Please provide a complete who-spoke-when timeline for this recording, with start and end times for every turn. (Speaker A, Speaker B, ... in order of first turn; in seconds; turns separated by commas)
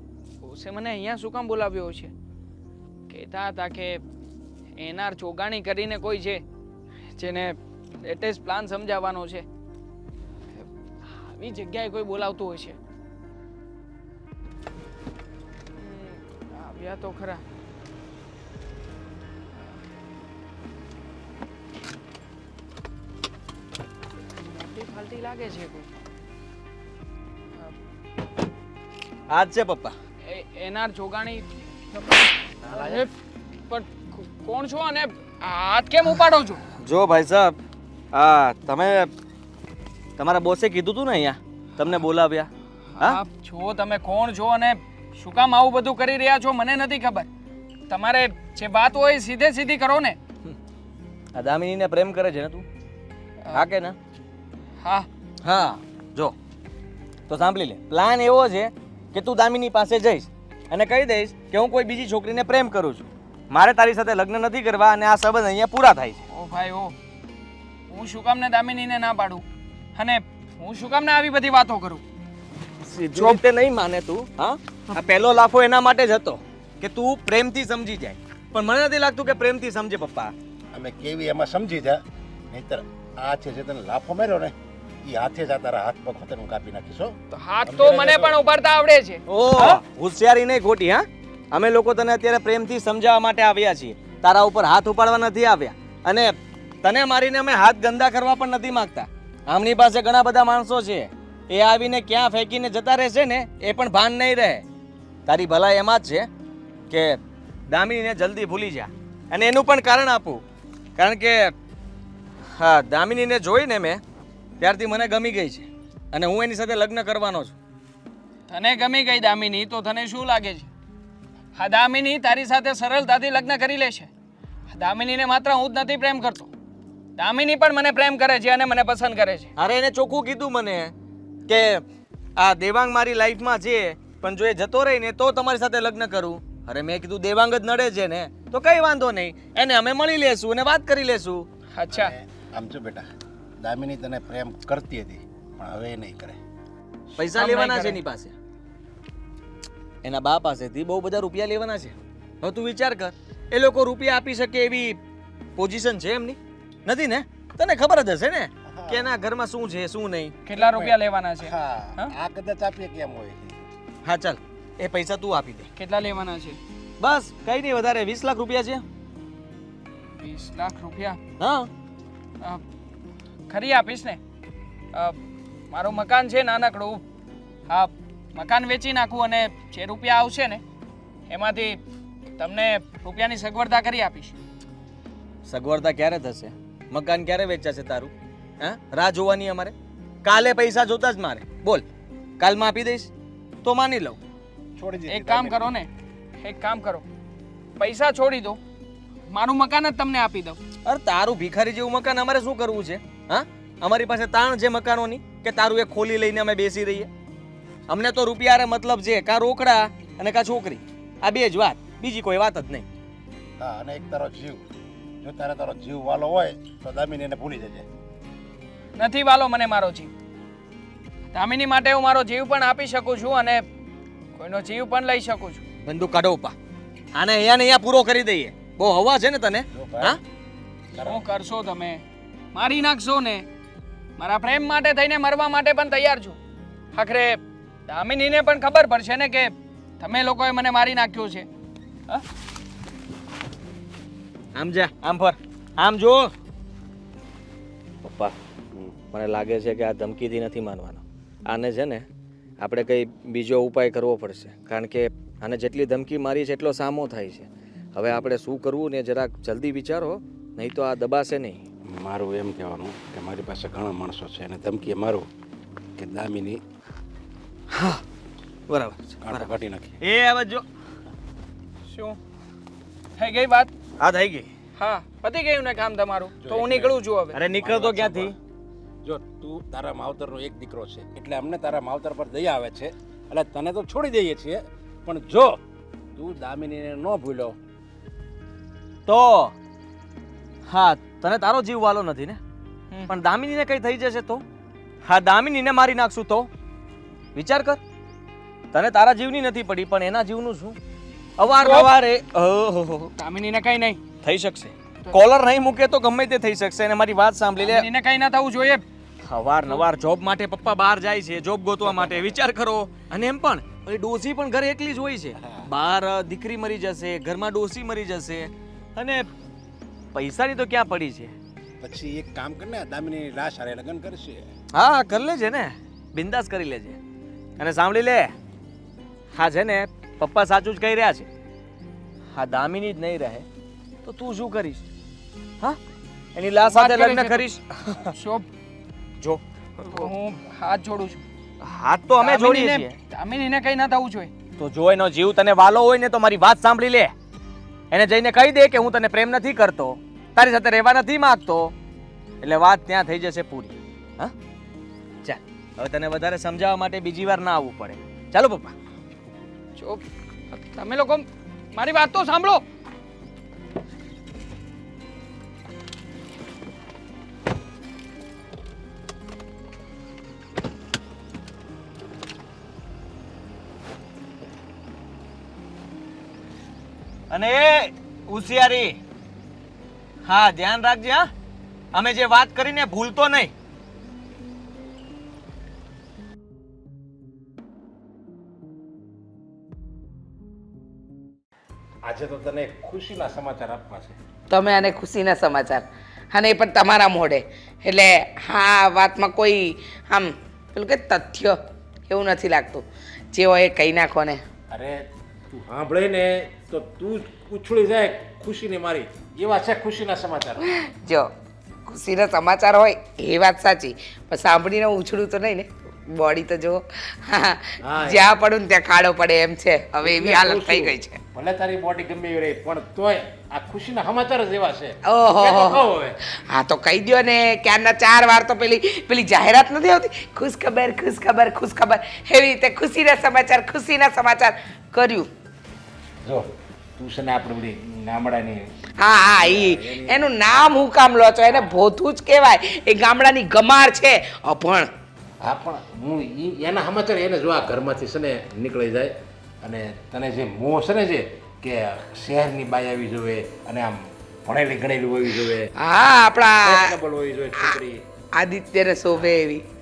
Speaker A: 0.4-2.1, Speaker A: 3.1-4.0, Speaker A: 4.8-6.4, Speaker A: 7.1-9.5, Speaker A: 10.6-12.8, Speaker A: 15.8-17.4, Speaker A: 24.4-25.9, Speaker B: 29.3-30.0, Speaker A: 30.2-31.5, Speaker A: 32.6-33.1, Speaker A: 33.7-36.6, Speaker B: 36.8-37.6, Speaker B: 38.1-39.1, Speaker B: 40.2-43.2, Speaker A: 43.0-47.3, Speaker A: 47.9-50.2, Speaker B: 51.3-52.6, Speaker B: 53.5-54.0, Speaker A: 54.8-55.1, Speaker B: 55.4-56.4, Speaker B: 57.3-66.2, Speaker A: 66.3-67.0, Speaker A: 67.9-69.4, Speaker A: 70.0-72.0, Speaker B: 72.8-80.3, Speaker A: 73.1-73.4, Speaker C: 80.7-88.4, Speaker A: 87.3-89.8, Speaker B: 89.3-104.7, Speaker B: 105.3-106.3, Speaker B: 106.9-110.4, Speaker B: 111.0-111.5, Speaker B: 112.6-114.0, Speaker B: 114.6-117.5, Speaker A: 118.5-120.7, Speaker A: 121.5-124.1, Speaker A: 124.7-126.5, Speaker A: 127.2-129.5, Speaker B: 129.6-130.9, Speaker B: 131.5-131.8, Speaker B: 132.4-141.5, Speaker A: 141.7-142.1, Speaker C: 141.9-143.1, Speaker C: 143.6-146.4, Speaker B: 147.2-148.3, Speaker A: 147.3-148.0, Speaker B: 150.0-155.0, Speaker B: 155.6-160.8, Speaker C: 158.7-159.2, Speaker A: 160.4-162.1, Speaker C: 161.4-163.7, Speaker B: 164.0-165.7, Speaker A: 165.8-166.6, Speaker B: 167.0-168.8, Speaker A: 170.2-171.2, Speaker B: 171.4-171.7, Speaker A: 173.5-174.2, Speaker A: 174.9-175.2, Speaker A: 175.7-177.0, Speaker A: 177.7-180.6, Speaker A: 181.3-181.8, Speaker A: 182.4-184.4, Speaker B: 185.5-191.8, Speaker B: 192.4-193.1, Speaker B: 193.6-194.2, Speaker C: 194.8-195.7, Speaker A: 195.1-197.1, Speaker A: 197.8-198.6, Speaker A: 199.3-200.6, Speaker B: 200.8-207.1, Speaker B: 207.9-212.9, Speaker C: 213.6-214.7, Speaker C: 215.2-217.9, Speaker A: 219.0-220.1, Speaker A: 221.3-223.7, Speaker A: 224.4-225.6, Speaker B: 225.8-226.6, Speaker B: 227.1-230.2, Speaker C: 229.7-230.2, Speaker C: 230.9-231.2, Speaker A: 231.0-232.0, Speaker A: 232.5-233.5, Speaker A: 234.2-236.4, Speaker A: 236.9-241.5, Speaker B: 244.6-246.3, Speaker B: 248.0-248.3, Speaker B: 249.1-252.1, Speaker B: 252.6-261.6, Speaker C: 261.9-265.3, Speaker C: 266.0-266.6, Speaker B: 267.7-268.0, Speaker B: 268.7-269.5, Speaker C: 269.2-270.0, Speaker B: 270.0-270.6, Speaker A: 271.9-272.2, Speaker A: 273.2-273.7, Speaker B: 274.0-274.5, Speaker A: 274.8-277.4, Speaker C: 276.4-277.0, Speaker B: 277.3-278.4, Speaker C: 277.6-278.4, Speaker C: 279.0-285.6, Speaker C: 286.2-287.6, Speaker B: 289.1-289.5, Speaker B: 290.7-292.4, Speaker B: 293.1-294.4, Speaker B: 295.1-296.5, Speaker B: 297.4-297.8, Speaker B: 298.7-300.8, Speaker B: 301.4-303.1, Speaker A: 301.6-301.9, Speaker A: 303.2-304.0, Speaker B: 304.2-307.9, Speaker A: 307.6-308.8, Speaker B: 309.2-319.3, Speaker C: 311.9-312.3, Speaker C: 315.4-315.7, Speaker B: 320.1-321.3, Speaker C: 321.8-324.5, Speaker B: 324.7-327.0, Speaker B: 327.6-328.3, Speaker B: 329.3-331.3, Speaker B: 332.3-333.4, Speaker B: 334.0-334.9, Speaker B: 336.4-338.1, Speaker A: 336.7-337.5, Speaker A: 338.1-338.5, Speaker B: 339.2-340.1, Speaker A: 339.9-341.2, Speaker B: 341.6-343.0, Speaker A: 342.2-344.3, Speaker B: 344.6-347.1, Speaker B: 347.9-351.7, Speaker B: 352.4-354.3, Speaker B: 355.2-358.7, Speaker A: 359.8-362.6, Speaker B: 377.3-379.0, Speaker B: 380.3-381.3, Speaker B: 381.9-383.5, Speaker C: 392.0-394.2, Speaker D: 394.5-401.6, Speaker D: 402.1-404.4, Speaker C: 404.7-410.6, Speaker D: 410.6-411.3, Speaker D: 411.9-421.2, Speaker C: 417.8-418.3, Speaker C: 420.0-426.2, Speaker D: 425.1-435.3, Speaker C: 436.2-438.7, Speaker D: 439.0-444.9, Speaker C: 439.4-440.2, Speaker C: 441.5-441.7, Speaker C: 445.4-455.7, Speaker D: 455.8-457.0, Speaker C: 456.6-458.0, Speaker D: 458.4-459.6